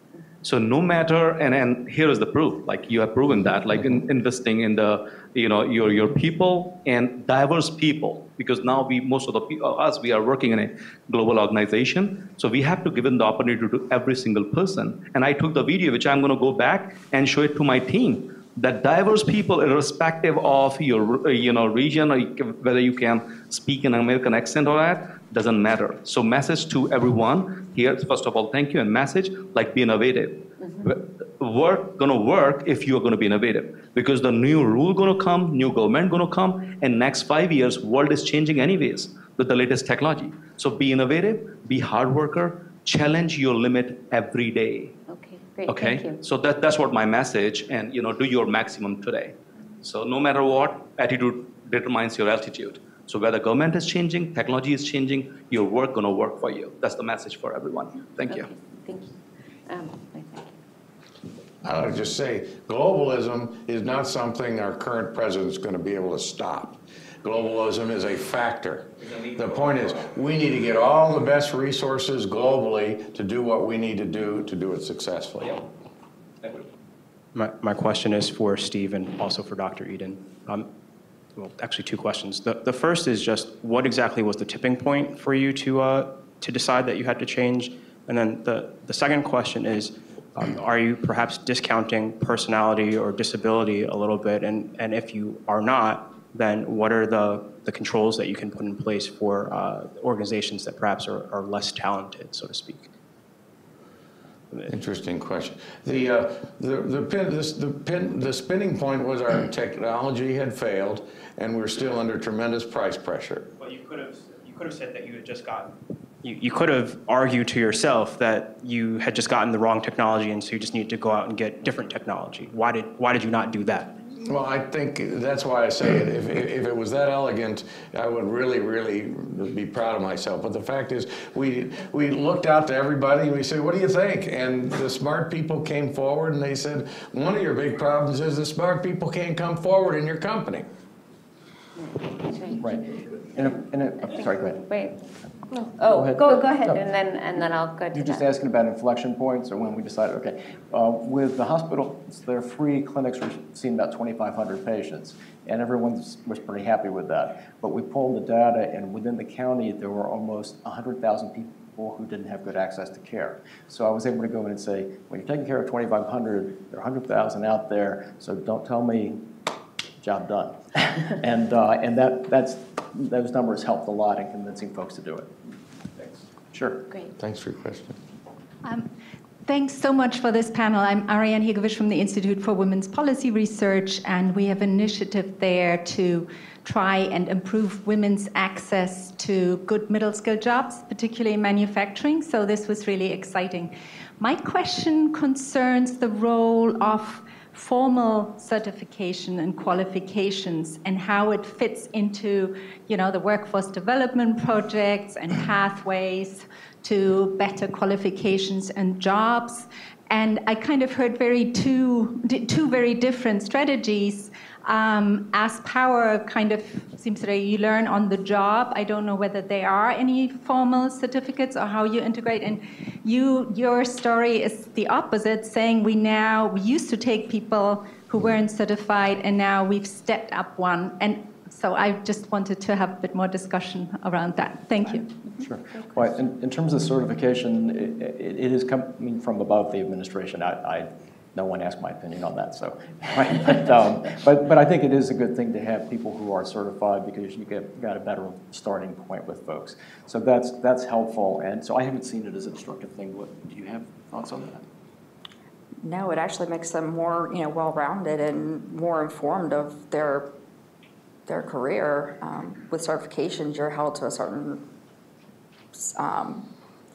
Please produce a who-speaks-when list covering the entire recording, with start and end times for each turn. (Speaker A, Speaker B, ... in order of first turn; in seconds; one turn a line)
Speaker A: 0.4-45.0
Speaker B: 45.1-46.2
Speaker A: 45.7-58.5
Speaker B: 58.2-60.6
Speaker C: 61.6-75.6
Speaker D: 77.3-80.7
Speaker D: 81.4-102.9
Speaker C: 104.7-113.5
Speaker D: 113.6-123.9
Speaker C: 124.2-140.7
Speaker B: 141.8-142.7
Speaker E: 142.5-144.7
Speaker B: 144.2-145.1
Speaker E: 145.6-146.8
Speaker B: 145.8-148.3
Speaker E: 147.9-169.2
Speaker E: 170.0-175.3
Speaker E: 176.0-176.9
Speaker C: 177.2-178.0
Speaker F: 179.4-235.1
Speaker E: 235.4-254.7
Speaker G: 255.8-260.3
Speaker G: 261.3-264.7
Speaker G: 265.7-266.5